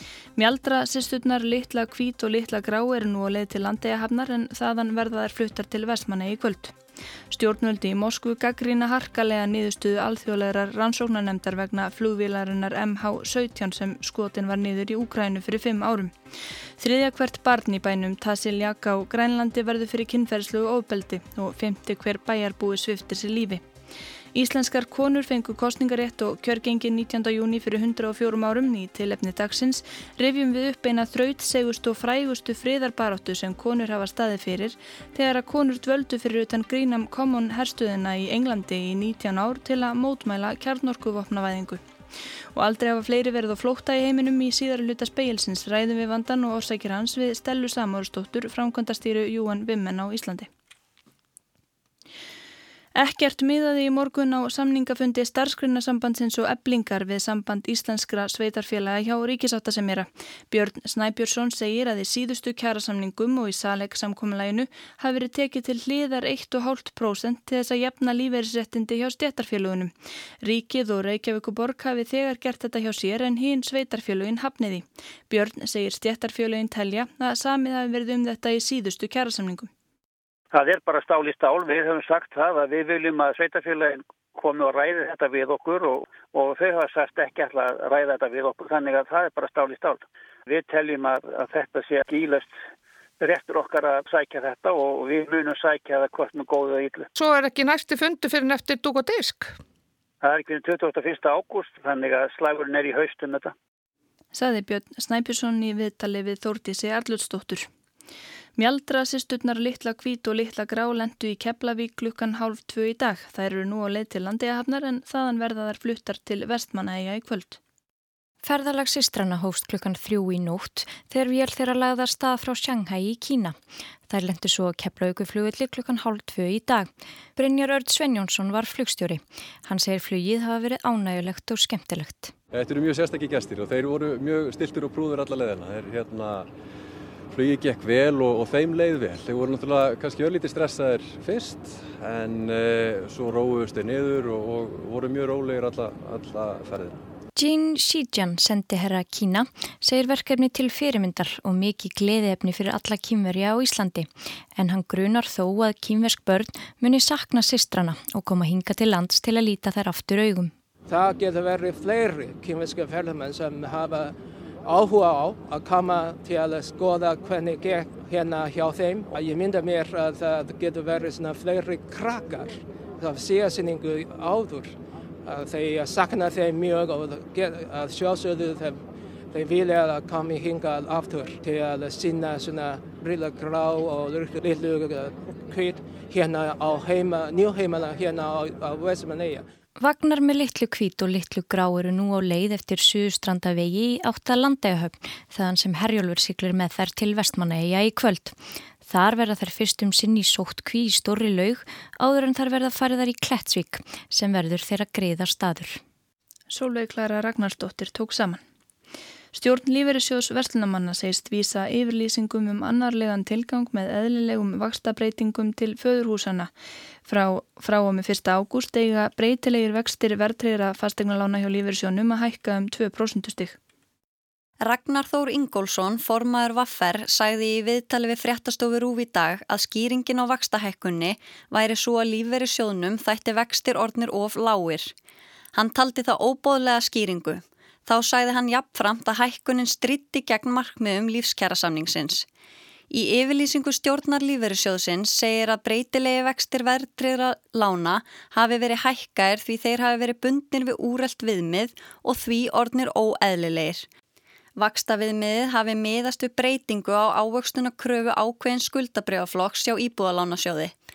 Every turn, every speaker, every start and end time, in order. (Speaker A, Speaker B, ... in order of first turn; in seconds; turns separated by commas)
Speaker A: 0.3-6.8, Speaker A: 7.3-16.1, Speaker A: 16.8-23.6, Speaker A: 24.3-41.8, Speaker A: 42.5-50.5, Speaker A: 52.9-79.7, Speaker B: 80.5-92.5, Speaker B: 93.2-97.1, Speaker C: 97.1-99.5, Speaker B: 100.2-103.5, Speaker A: 104.3-107.7, Speaker A: 108.6-117.6, Speaker D: 118.4-132.3, Speaker E: 132.5-136.5, Speaker E: 137.3-147.0, Speaker D: 147.3-160.5, Speaker F: 160.9-189.4, Speaker D: 189.8-205.8, Speaker A: 206.5-208.4, Speaker A: 209.3-216.5, Speaker A: 217.1-223.6, Speaker G: 224.6-234.9, Speaker G: 235.5-242.2, Speaker G: 242.9-253.8, Speaker G: 254.6-260.7